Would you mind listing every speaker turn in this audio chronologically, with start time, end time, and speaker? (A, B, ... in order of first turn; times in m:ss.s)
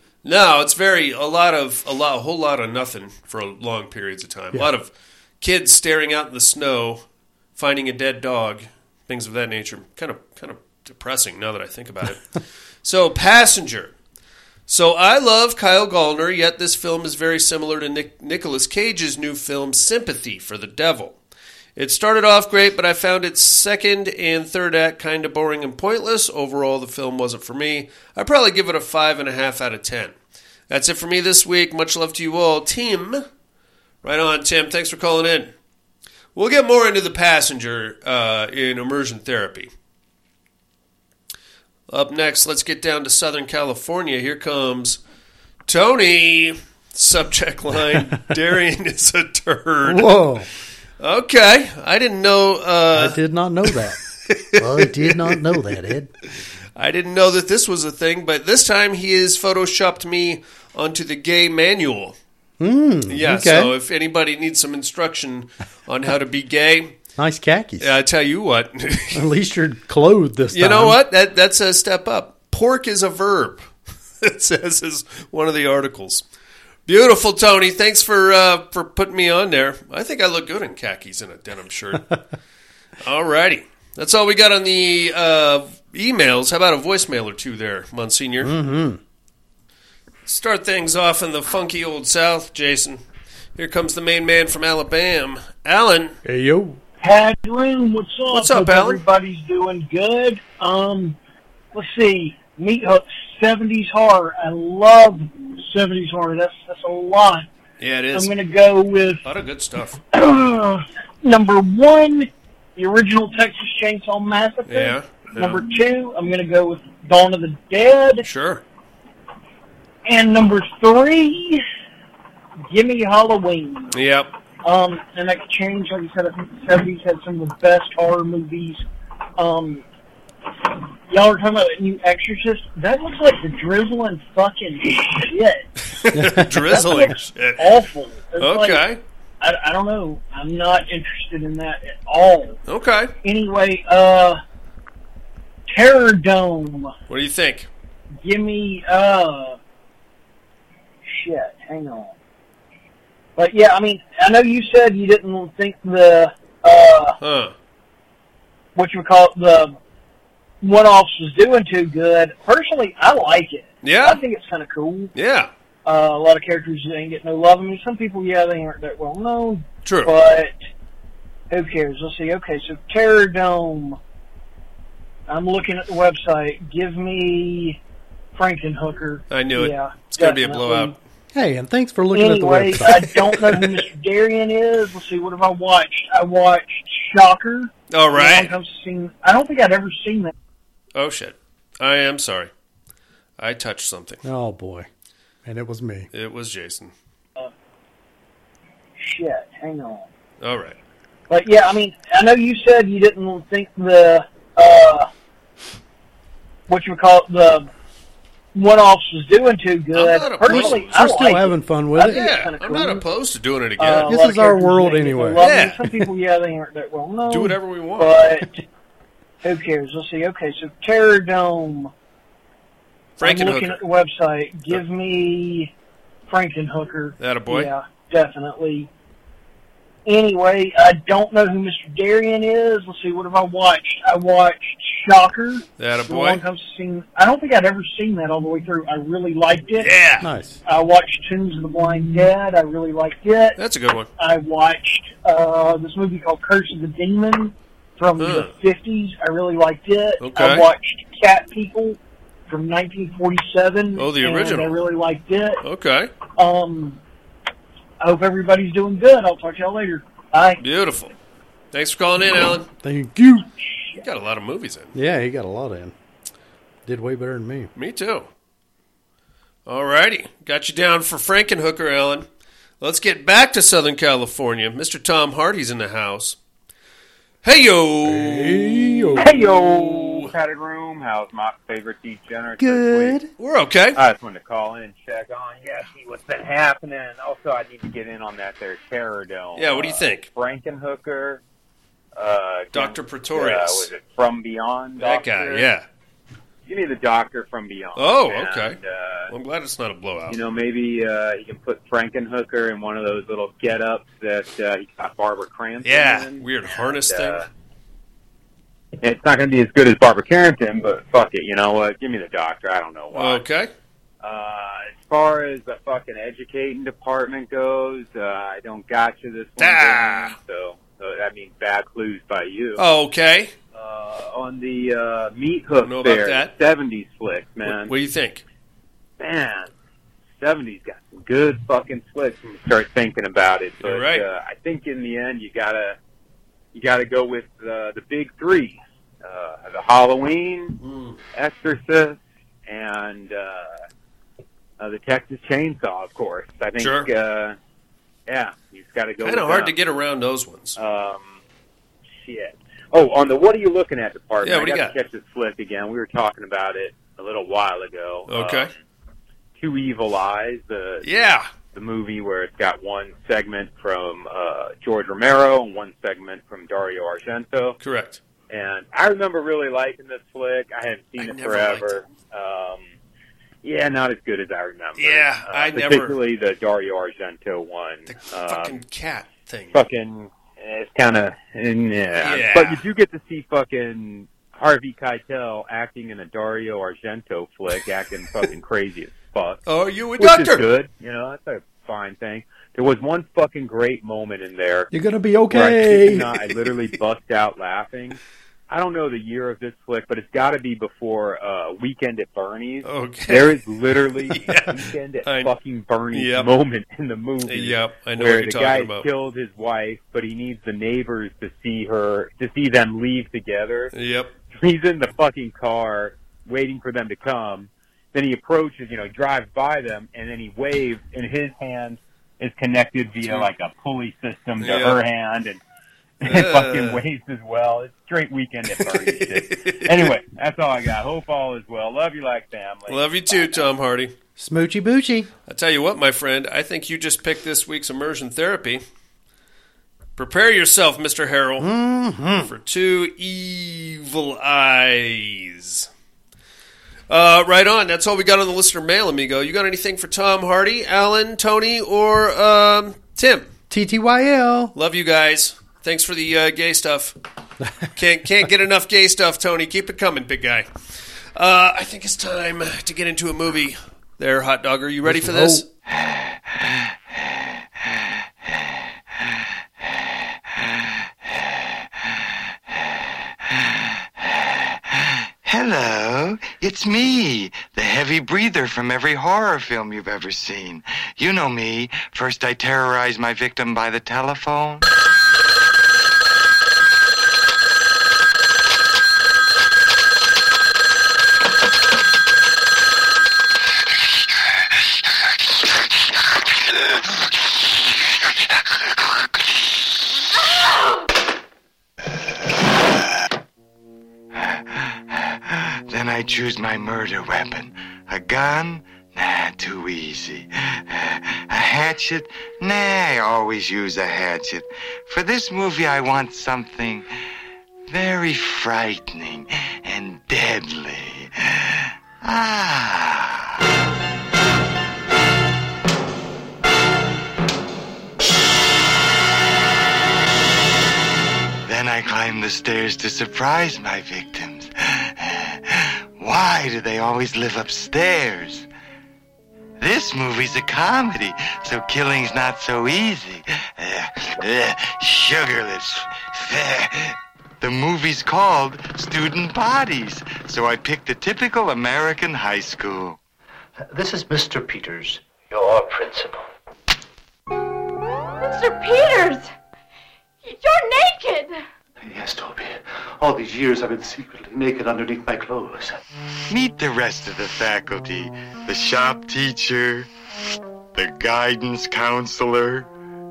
0:00.2-0:04.9 A
0:05.4-0:07.0 A
0:07.6-0:12.3 A
0:12.8-0:13.9 A
0:14.7-0:21.2 A
0:21.8-0:30.2 A
0:30.7-0:33.2 A
0:34.0-0:35.5 A
0:36.4-0:39.7 A
0:41.9-0:45.0 A
0:45.7-0:50.1 A
0:49.8-0:50.5 B
0:51.0-0:53.2 A
0:52.9-0:54.0 B
0:54.3-0:55.6 A
0:54.6-0:56.1 B
0:56.3-1:02.2 A
1:02.6-1:03.7 B
1:03.1-1:07.0 A
1:07.2-1:07.9 B
1:07.8-1:09.2 A
1:09.1-1:11.0 B
1:10.5-1:13.7 A
1:14.2-1:16.2 A
1:16.9-1:22.2 A
1:23.0-1:28.5 A
1:28.4-1:29.0 B
1:30.3-1:33.0 A
1:33.6-1:36.2 A
1:36.2-1:36.8 B
1:37.0-1:41.2 C
1:38.3-1:39.0 A
1:41.7-1:47.5 C
1:47.8-1:48.3 A
1:48.1-1:49.2 C
1:49.2-1:50.0 A
1:50.1-1:58.3 C
1:54.7-1:55.6 A
1:58.2-1:58.6 A
2:00.0-2:01.6 C
2:02.7-2:04.0 C
2:03.9-2:04.3 A
2:04.6-2:08.8 C
2:09.4-2:09.8 C
2:11.1-2:15.7 C
2:16.0-2:17.8 A
2:16.1-2:16.8 B
2:16.7-2:18.9 C
2:18.4-2:19.0 A
2:19.4-2:22.6 C
2:22.7-2:23.1 A
2:23.2-2:24.4 C
2:25.7-2:26.9 C
2:27.1-2:27.7 A
2:28.2-2:29.6 C
2:31.0-2:32.1 C
2:33.4-2:37.2 C
2:37.2-2:37.6 A
2:38.8-2:39.8 C
2:40.6-2:45.1 C
2:43.8-2:44.2 A
2:45.2-2:45.5 A
2:45.8-2:50.5 C
2:49.8-2:50.1 A
2:51.5-2:54.0 C
2:55.3-2:57.8 C
2:58.3-3:01.0 C
2:59.3-3:01.0 A
3:01.3-3:03.1 B
3:02.1-3:10.3 C
3:02.9-3:03.7 A
3:07.9-3:08.5 A
3:11.0-3:12.5 A
3:13.4-3:14.2 A
3:14.2-3:14.9 B
3:15.5-3:16.1 B
3:16.1-3:16.9 A
3:19.0-3:20.1 C
3:20.4-3:20.8 A
3:21.3-3:25.1 C
3:26.7-3:27.7 C
3:28.5-3:33.0 C
3:29.9-3:31.1 A
3:30.5-3:32.3 B
3:32.1-3:34.1 A
3:33.8-3:38.6 C
3:34.1-3:35.4 B
3:35.4-3:35.8 A
3:37.3-3:38.2 A
3:39.4-3:41.9 C
3:43.2-3:43.8 A
3:43.2-3:45.7 C
3:46.3-3:48.9 C
3:47.2-3:47.7 A
3:50.1-3:59.9 C
3:55.8-3:56.4 A
3:59.8-4:00.3 A
4:00.2-4:00.6 B
4:00.7-4:03.6 C
4:03.6-4:04.1 A
4:04.2-4:15.6 C
4:08.2-4:08.5 A
4:10.2-4:10.7 A
4:14.0-4:14.8 A
4:15.6-4:16.1 A
4:16.4-4:17.0 C
4:18.0-4:20.6 C
4:20.6-4:21.1 A
4:21.7-4:22.7 A
4:22.8-4:23.5 B
4:23.6-4:24.0 C
4:24.0-4:24.9 A
4:24.9-4:25.9 B
4:26.9-4:27.7 B
4:27.8-4:28.3 A
4:29.7-4:32.3 A
4:32.8-4:36.4 A
4:37.4-4:40.3 A
4:38.0-4:39.3 B
4:39.2-4:43.2 D
4:42.6-4:43.3 B
4:43.4-4:44.0 A
4:44.0-4:51.4 D
4:49.6-4:50.3 A
4:52.2-4:55.7 D
4:52.7-4:53.9 A
4:55.0-4:55.9 A
4:56.7-4:59.3 D
4:58.0-4:58.8 A
4:59.3-5:00.4 A
5:00.3-5:07.5 D
5:05.8-5:07.4 A
5:09.0-5:13.4 D
5:13.1-5:13.7 A
5:14.2-5:22.8 D
5:19.6-5:20.4 A
5:22.8-5:23.5 A
5:23.7-5:27.9 D
5:25.8-5:26.5 A
5:27.6-5:28.4 A
5:29.2-5:29.7 D
5:30.4-5:36.0 D
5:33.8-5:34.2 A
5:36.7-5:40.8 D
5:40.8-5:41.2 A
5:41.3-5:43.8 D
5:44.8-5:47.6 D
5:46.8-5:47.1 A
5:48.3-5:49.7 D
5:49.2-5:50.8 A
5:50.8-5:51.4 D
5:52.2-5:58.8 D
5:54.4-5:54.9 A
5:58.3-5:58.7 A
5:59.6-6:01.1 D
6:01.0-6:01.5 A
6:01.7-6:07.8 D
6:07.8-6:08.2 A
6:08.5-6:12.9 D
6:11.2-6:12.0 A
6:13.6-6:18.8 D
6:15.0-6:16.2 A
6:18.1-6:19.8 A
6:19.7-6:29.6 D
6:22.2-6:22.8 A
6:29.7-6:30.7 A
6:30.2-6:34.9 D
6:34.9-6:36.3 B
6:35.5-6:53.9 D
6:42.8-6:43.6 A
6:44.3-6:45.5 A
6:46.1-6:46.5 A
6:47.4-6:49.1 A
6:53.9-6:54.3 A
6:54.5-7:05.6 D
7:03.2-7:03.5 A
7:04.6-7:05.0 A
7:06.2-7:13.7 D
7:06.2-7:07.0 A
7:08.8-7:10.1 A
7:12.9-7:14.1 A
7:14.4-7:15.3 B
7:15.5-7:18.8 A
7:20.2-7:21.7 A
7:21.6-7:22.5 B
7:22.4-7:25.9 A
7:27.1-7:33.5 A
7:33.7-7:34.7 B
7:34.8-7:37.2 A
7:38.0-7:40.7 A
7:41.4-7:45.7 A
7:45.0-7:45.6 B
7:45.9-8:04.9 E
8:24.3-8:37.1 E
8:37.9-8:43.6 E
8:51.6-8:58.7 E
8:59.8-9:13.2 E
9:13.9-9:16.5 F
9:18.4-9:19.5 G
9:20.4-9:21.6 G
9:22.0-9:26.0 F
9:26.5-9:30.1 E
9:31.0-9:32.9 E